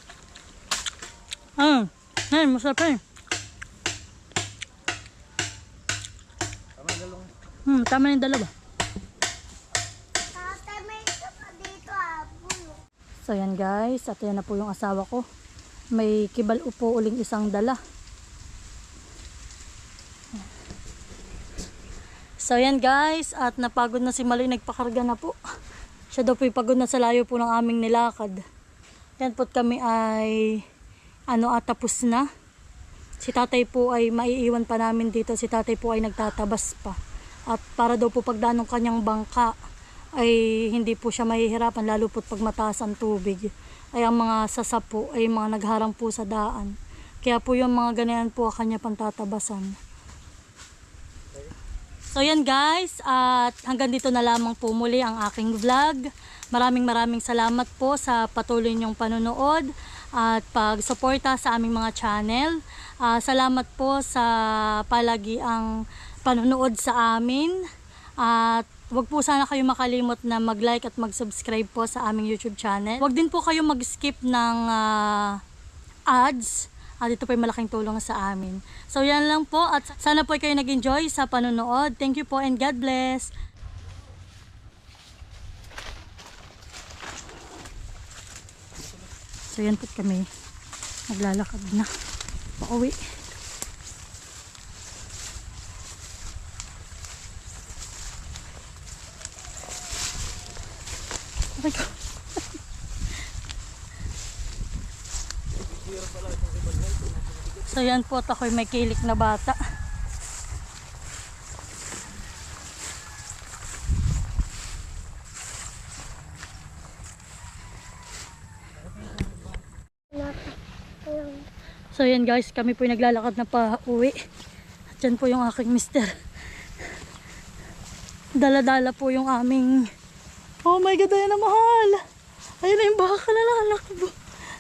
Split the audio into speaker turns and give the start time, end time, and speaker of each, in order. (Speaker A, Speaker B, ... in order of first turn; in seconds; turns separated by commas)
Speaker A: 1.6-3.0, Speaker B: 6.8-7.3, Speaker A: 7.7-8.5, Speaker C: 10.3-12.8, Speaker A: 13.2-15.2, Speaker A: 15.9-17.8, Speaker A: 22.4-25.4, Speaker A: 26.1-28.4, Speaker A: 29.2-30.6, Speaker A: 31.3-32.2, Speaker A: 33.2-37.0, Speaker A: 37.5-39.5, Speaker A: 40.2-49.8, Speaker A: 52.1-65.7, Speaker A: 66.2-67.6, Speaker A: 68.2-75.4, Speaker A: 76.1-83.3, Speaker A: 89.5-90.3, Speaker A: 91.1-91.9, Speaker A: 92.6-93.0, Speaker A: 101.6-101.9, Speaker B: 105.7-107.8, Speaker A: 107.7-109.6, Speaker C: 120.1-120.5, Speaker C: 121.0-121.4, Speaker A: 121.9-124.2, Speaker A: 125.0-126.1, Speaker A: 128.4-129.8, Speaker A: 130.6-132.0, Speaker A: 132.6-134.1